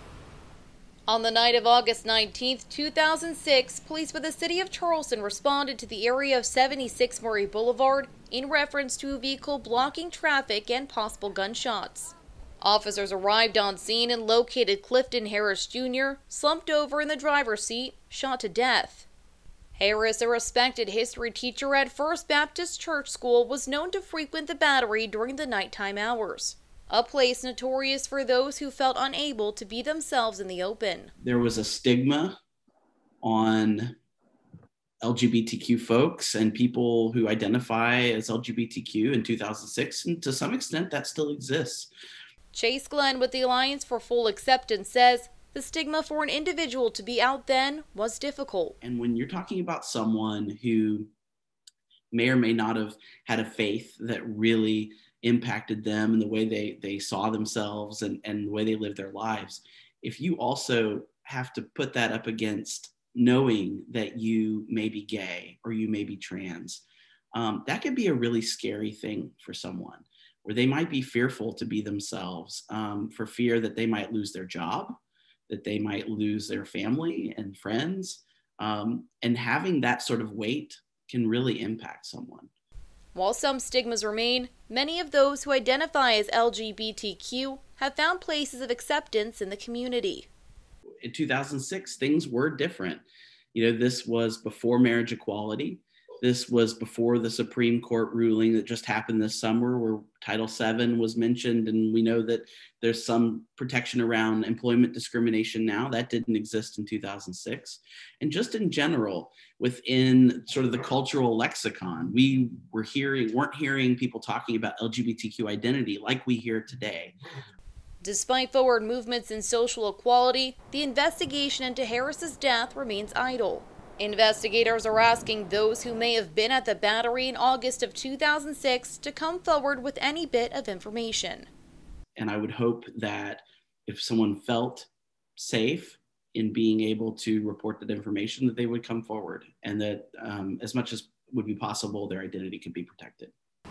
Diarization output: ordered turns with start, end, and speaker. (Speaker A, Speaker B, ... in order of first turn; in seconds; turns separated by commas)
Speaker A: 1.1-19.1, Speaker A: 19.7-31.1, Speaker B: 31.2-32.4, Speaker B: 33.2-34.0, Speaker B: 35.0-41.9, Speaker A: 42.5-48.8, Speaker B: 48.8-51.1, Speaker B: 52.1-66.8, Speaker B: 67.3-75.0, Speaker B: 75.5-82.5, Speaker A: 83.1-90.3, Speaker B: 91.0-117.2, Speaker A: 118.0-131.5, Speaker B: 132.2-143.3